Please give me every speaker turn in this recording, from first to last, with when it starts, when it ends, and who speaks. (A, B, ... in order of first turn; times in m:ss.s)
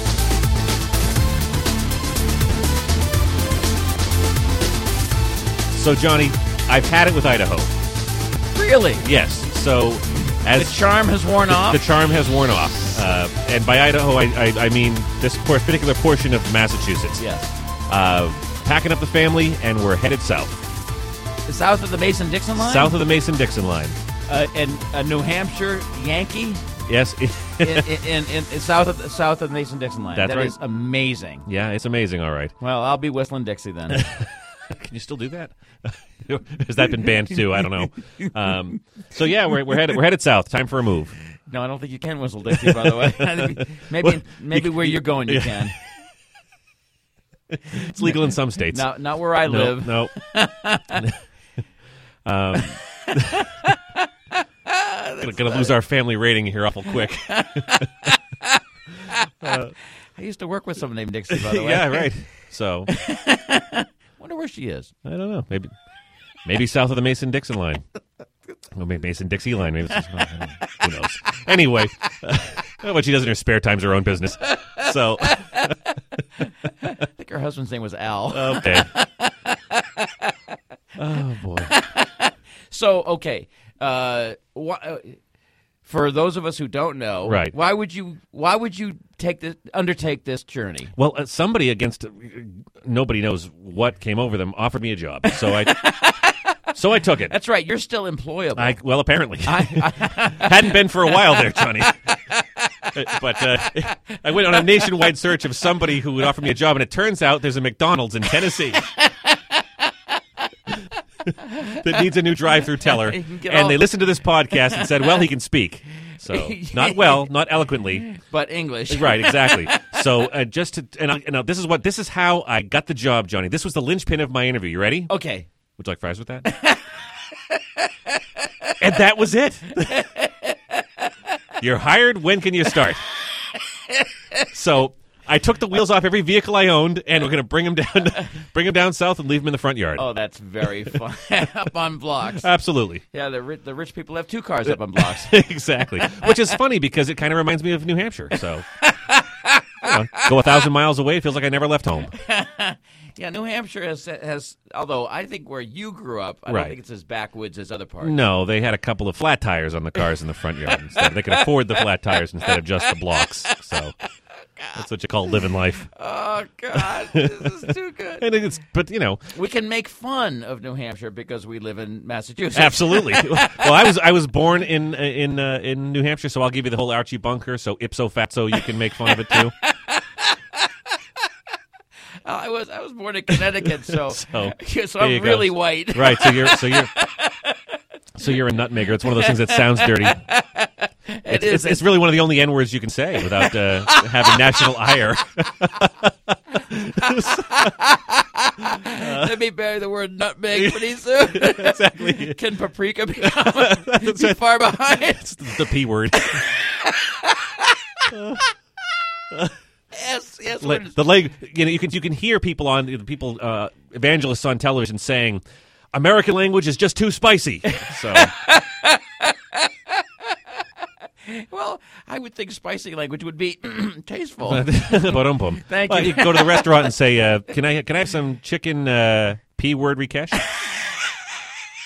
0:05.7-0:07.7 A
0:08.5-0:09.0 B
0:09.0-0:10.9 A
0:10.5-0:11.8 B
0:11.4-0:17.2 A
0:17.2-0:17.6 B
0:17.9-0:20.5 A
0:21.4-0:23.0 B
0:22.6-0:24.0 A
0:24.3-0:26.7 B
0:26.9-0:27.9 A
0:27.6-0:31.5 B
0:30.2-0:30.5 A
0:31.4-0:32.5 A
0:32.6-0:34.0 B
0:33.9-0:41.1 A
0:41.5-0:45.8 B
0:42.5-0:45.7 A
0:47.6-0:48.8 A
0:48.7-0:51.0 B
0:49.4-0:50.2 A
0:52.2-0:53.5 A
0:52.7-0:54.1 B
0:54.6-0:55.7 B
0:55.2-0:58.1 A
0:56.9-0:59.5 B
0:59.4-0:59.7 A
1:00.1-1:02.1 B
1:01.3-1:02.9 A
1:02.9-1:04.9 B
1:05.0-1:05.7 A
1:06.4-1:07.8 A
1:08.8-1:15.7 A
1:14.6-1:15.7 B
1:16.4-1:20.3 B
1:18.3-1:18.9 A
1:21.0-1:21.7 A
1:21.6-1:25.2 B
1:25.8-1:30.9 B
1:27.2-1:27.5 A
1:31.0-1:36.0 A
1:35.3-1:36.6 B
1:36.7-1:37.3 A
1:37.2-1:38.8 B
1:38.6-1:42.1 A
1:39.4-1:43.0 B
1:42.9-1:48.8 A
1:43.6-1:45.0 B
1:48.6-1:49.8 B
1:51.4-1:52.0 B
1:51.7-1:58.1 A
1:52.8-1:53.9 B
1:54.5-1:55.2 B
1:56.2-1:57.3 B
1:58.1-1:59.9 B
1:58.9-2:05.1 A
2:05.1-2:05.5 B
2:05.8-2:06.4 A
2:06.4-2:08.7 B
2:08.8-2:10.1 A
2:09.8-2:10.8 B
2:11.6-2:13.0 A
2:13.3-2:14.4 B
2:14.5-2:20.0 A
2:20.0-2:22.5 B
2:22.4-2:23.0 A
2:23.1-2:25.3 B
2:24.7-2:28.6 A
2:26.0-2:26.3 B
2:28.8-2:30.5 B
2:29.8-2:32.1 A
2:32.1-2:38.2 B
2:36.5-2:36.7 A
2:38.0-2:43.9 A
2:40.7-2:43.6 B
2:44.7-2:45.9 A
2:45.9-2:48.3 B
2:46.7-2:47.5 A
2:48.2-2:49.2 A
2:49.3-2:53.8 B
2:52.5-2:59.5 A
2:59.0-3:00.6 B
3:02.2-3:07.6 B
3:03.6-3:06.9 A
3:08.1-3:10.2 A
3:08.2-3:11.8 B
3:11.3-3:17.8 A
3:13.2-3:14.7 B
3:17.0-3:27.8 B
3:18.8-3:19.3 A
3:20.5-3:22.4 A
3:23.2-3:26.4 A
3:28.1-3:28.4 A
3:29.9-3:31.0 B
3:30.6-3:38.3 A
3:37.7-3:39.9 B
3:41.2-3:46.9 B
3:44.4-3:50.5 A